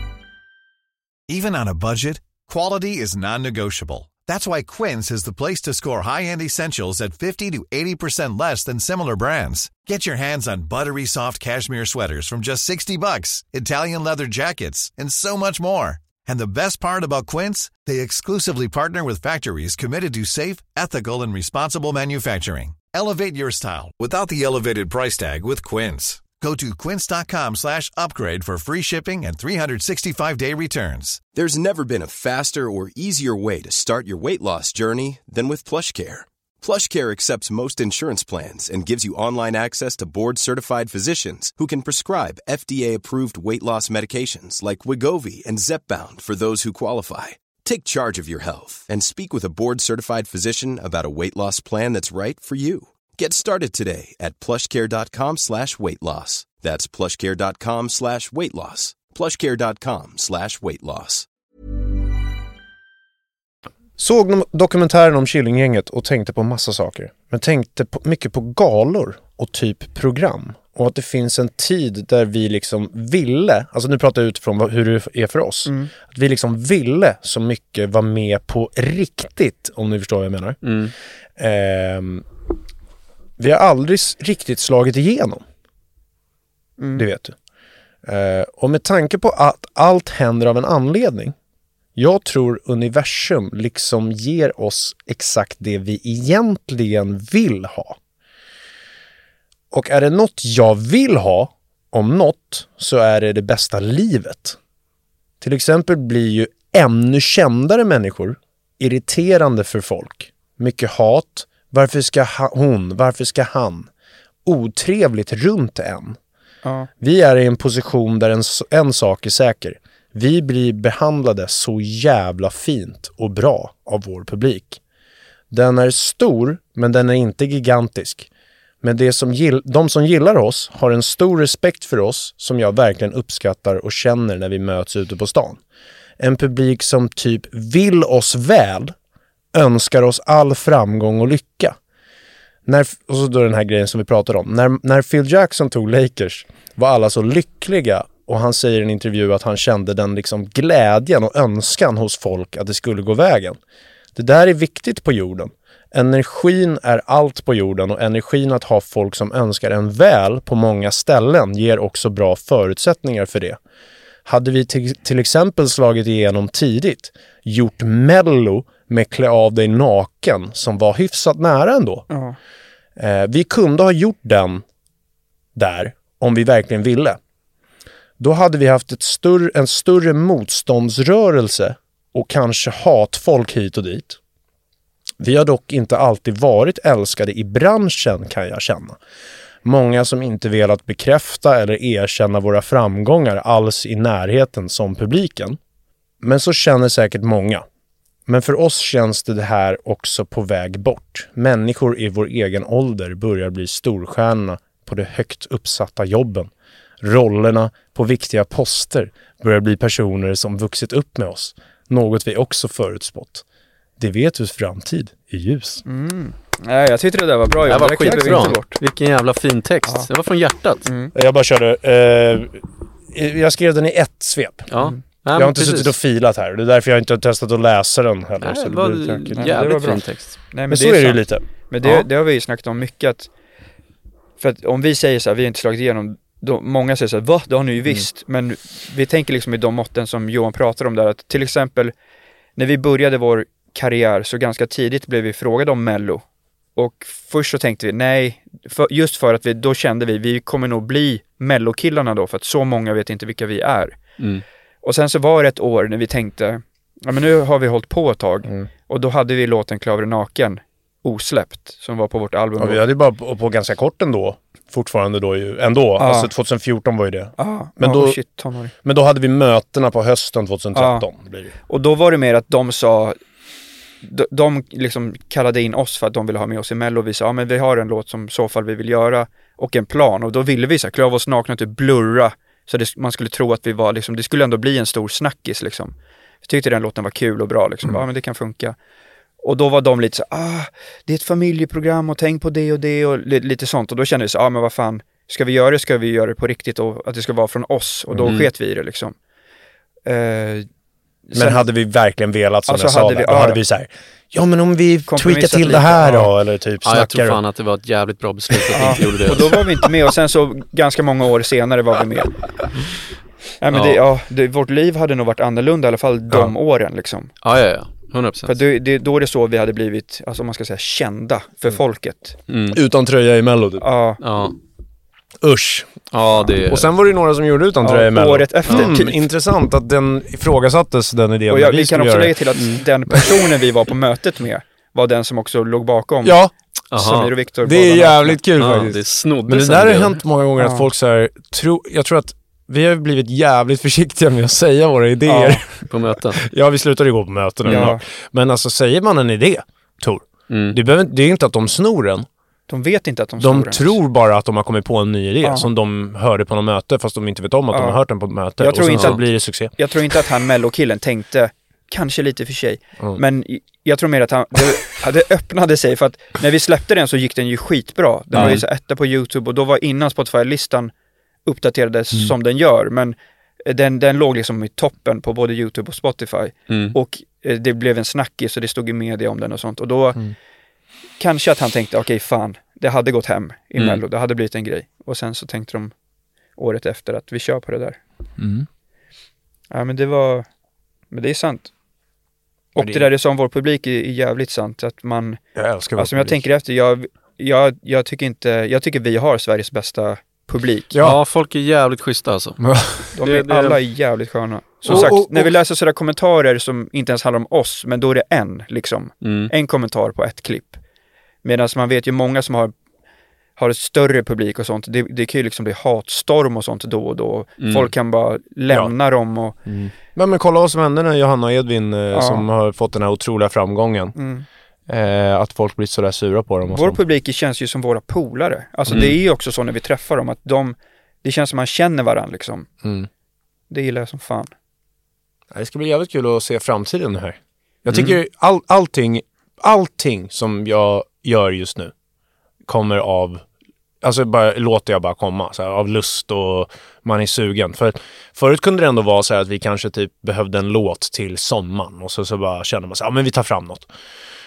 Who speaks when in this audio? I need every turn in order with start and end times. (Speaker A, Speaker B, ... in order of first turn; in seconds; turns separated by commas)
Speaker A: 1.3-31.2, Speaker B: 31.2-61.3, Speaker C: 64.0-80.6, Speaker D: 75.7-75.9, Speaker E: 80.6-80.9, Speaker C: 81.4-82.2, Speaker C: 83.4-85.4, Speaker D: 86.8-87.0, Speaker C: 87.0-87.3, Speaker C: 88.0-91.3, Speaker C: 92.0-98.0, Speaker C: 99.7-104.6, Speaker C: 105.4-113.9, Speaker C: 114.4-116.2, Speaker D: 116.6-116.9, Speaker C: 117.0-124.8, Speaker C: 125.5-128.3, Speaker C: 128.8-135.6, Speaker C: 136.2-138.9, Speaker C: 139.5-141.8, Speaker C: 142.7-153.6, Speaker C: 154.1-163.6, Speaker C: 164.2-172.1, Speaker D: 172.1-172.4, Speaker C: 173.0-174.6, Speaker C: 175.5-177.2, Speaker C: 178.2-184.2, Speaker C: 185.2-189.0, Speaker C: 189.6-195.6, Speaker C: 196.2-197.6, Speaker C: 198.3-213.4, Speaker C: 214.0-215.8, Speaker D: 215.8-218.7, Speaker E: 217.7-220.9, Speaker C: 218.0-218.5, Speaker D: 220.8-221.1, Speaker C: 221.1-224.7, Speaker E: 224.7-225.9, Speaker C: 225.3-229.9, Speaker E: 228.4-230.4, Speaker D: 229.3-233.3, Speaker C: 230.7-231.9, Speaker D: 234.4-241.9, Speaker D: 242.6-246.2, Speaker D: 246.8-254.0, Speaker D: 254.8-262.8, Speaker C: 262.6-268.2, Speaker D: 266.0-266.3, Speaker D: 267.4-268.7, Speaker C: 268.8-271.5, Speaker D: 270.7-271.1, Speaker D: 271.7-273.2, Speaker D: 274.0-288.8, Speaker D: 289.4-299.1, Speaker D: 300.1-300.7, Speaker D: 301.3-301.7, Speaker C: 301.3-307.4, Speaker D: 302.7-303.6, Speaker D: 305.1-306.3, Speaker E: 306.8-309.5, Speaker D: 308.7-312.4, Speaker D: 313.6-317.3, Speaker E: 313.7-314.0, Speaker E: 317.4-318.6, Speaker D: 318.4-322.4, Speaker E: 322.5-322.8, Speaker C: 322.7-323.9, Speaker D: 323.8-324.2, Speaker E: 324.2-324.6, Speaker C: 325.4-326.0, Speaker E: 326.1-326.9, Speaker C: 326.6-333.4, Speaker D: 327.8-329.2, Speaker D: 331.5-336.4, Speaker C: 336.2-336.5, Speaker E: 336.9-337.3, Speaker D: 336.9-338.4, Speaker C: 337.6-352.3, Speaker E: 338.6-340.2, Speaker D: 340.6-340.9, Speaker D: 345.2-345.6, Speaker E: 345.9-346.4, Speaker D: 347.7-348.0, Speaker E: 350.5-350.8, Speaker D: 352.7-354.0, Speaker C: 353.4-359.7, Speaker D: 355.4-355.7, Speaker D: 357.7-358.0, Speaker D: 358.6-359.2, Speaker E: 358.9-359.2, Speaker D: 359.7-370.9, Speaker E: 368.3-368.6, Speaker D: 371.4-380.2, Speaker E: 376.7-376.9, Speaker D: 381.2-385.9, Speaker D: 386.6-388.0, Speaker C: 388.4-388.7, Speaker D: 389.7-390.4, Speaker D: 391.1-391.7, Speaker D: 392.7-395.4, Speaker C: 392.8-393.1, Speaker C: 395.5-396.4, Speaker D: 395.9-400.9, Speaker C: 400.9-401.2, Speaker E: 401.0-403.8, Speaker C: 402.6-403.1, Speaker D: 403.1-410.8, Speaker C: 404.9-405.5, Speaker E: 409.2-409.5, Speaker D: 411.4-412.7, Speaker D: 413.6-419.6, Speaker E: 417.6-417.9, Speaker C: 419.6-424.1, Speaker D: 422.1-422.4, Speaker D: 424.1-424.4, Speaker C: 424.9-427.0, Speaker D: 426.7-432.7, Speaker C: 428.9-429.1, Speaker C: 432.8-433.1, Speaker D: 433.7-434.5, Speaker C: 435.5-441.9, Speaker E: 437.9-438.2, Speaker C: 442.7-443.4, Speaker C: 444.0-453.9